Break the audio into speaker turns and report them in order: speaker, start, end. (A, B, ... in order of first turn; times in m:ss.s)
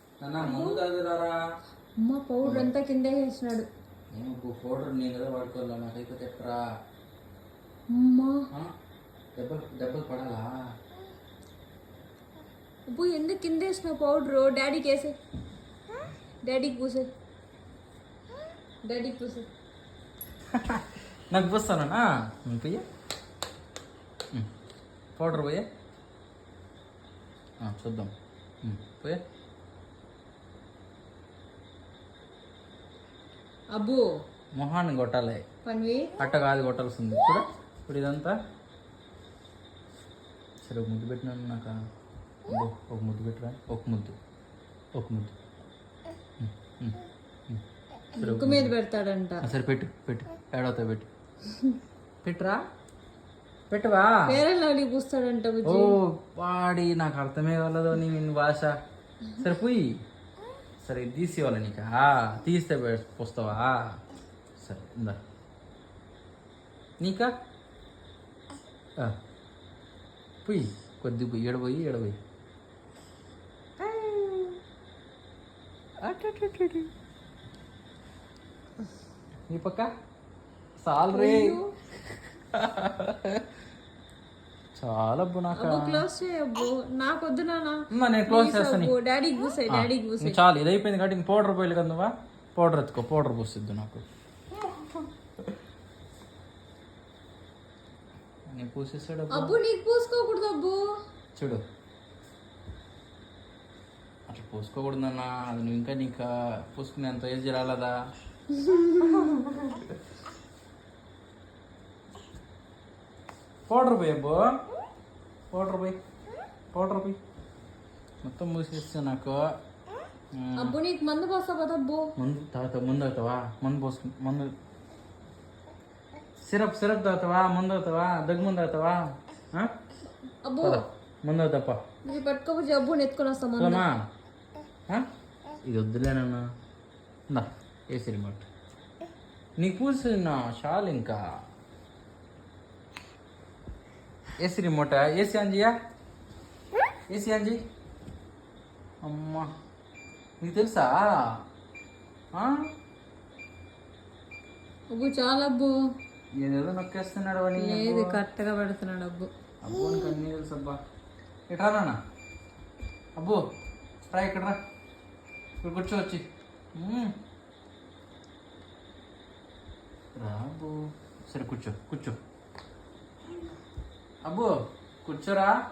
0:00.2-0:01.4 A
0:00.4-0:00.8 B
0:02.0-0:03.7 B
0:02.4-0:02.7 A
0:04.1-0:06.6 A
0:07.9-0:08.5 B
0:09.4-0:10.5 A
0:12.9-0:15.2 B
0:16.4-0:17.1 B
0:18.8-0:19.5 B
0:20.5-0:22.8 A
0:25.2-0:25.6 A
0:27.6-0:28.1 A
0:28.6-0:29.2 A
0:33.7-0:34.0 B
0:34.6-0:35.4 A
0:35.6-0:36.2 B
0:36.2-0:38.4 A
0:40.6-0:41.7 A
0:42.5-0:44.2 A
0:45.0-0:45.3 A
0:46.4-0:47.6 A
0:48.2-0:48.7 A
0:48.2-0:49.4 B
0:49.4-0:51.1 A
0:52.2-0:52.6 A
0:53.7-0:54.4 A
0:54.3-0:56.0 B
0:55.6-0:58.8 A
0:59.4-0:59.9 A
1:00.8-1:04.0 A
1:04.6-1:05.2 A
1:07.0-1:07.3 A
1:10.4-1:12.2 A
1:13.8-1:14.6 A
1:16.0-1:16.9 A
1:19.5-1:19.9 A
1:20.8-1:21.6 A
1:21.1-1:21.7 B
1:22.5-1:23.4 A
1:24.8-1:26.0 A
1:25.5-1:30.4 B
1:27.9-1:28.9 A
1:29.7-1:34.0 A
1:34.6-1:35.0 A
1:38.5-1:39.6 A
1:39.3-1:40.8 B
1:41.4-1:41.6 A
1:44.3-1:48.0 A
1:48.6-1:49.2 B
1:49.0-1:50.0 A
1:53.7-1:54.5 A
1:55.5-1:56.0 A
1:56.7-1:57.2 A
1:58.2-1:59.4 A
2:00.4-2:00.7 A
2:00.6-2:02.1 B
2:02.2-2:04.5 A
2:06.4-2:09.0 A
2:10.4-2:10.8 B
2:10.6-2:11.8 A
2:12.0-2:13.8 B
2:13.6-2:14.0 A
2:15.6-2:16.4 A
2:17.3-2:18.4 A
2:19.6-2:21.2 A
2:24.4-2:25.7 A
2:27.1-2:27.6 A
2:29.0-2:29.5 A
2:30.4-2:31.0 A
2:32.4-2:32.7 A
2:34.9-2:35.7 B
2:36.4-2:38.1 A
2:37.6-2:39.3 B
2:39.6-2:40.8 A
2:41.5-2:42.0 A
2:44.1-2:44.6 A
2:45.6-2:46.2 A
2:46.8-2:47.1 A
2:50.2-2:50.8 A
2:51.3-2:52.2 A
2:54.3-2:54.5 A
2:55.0-2:55.6 A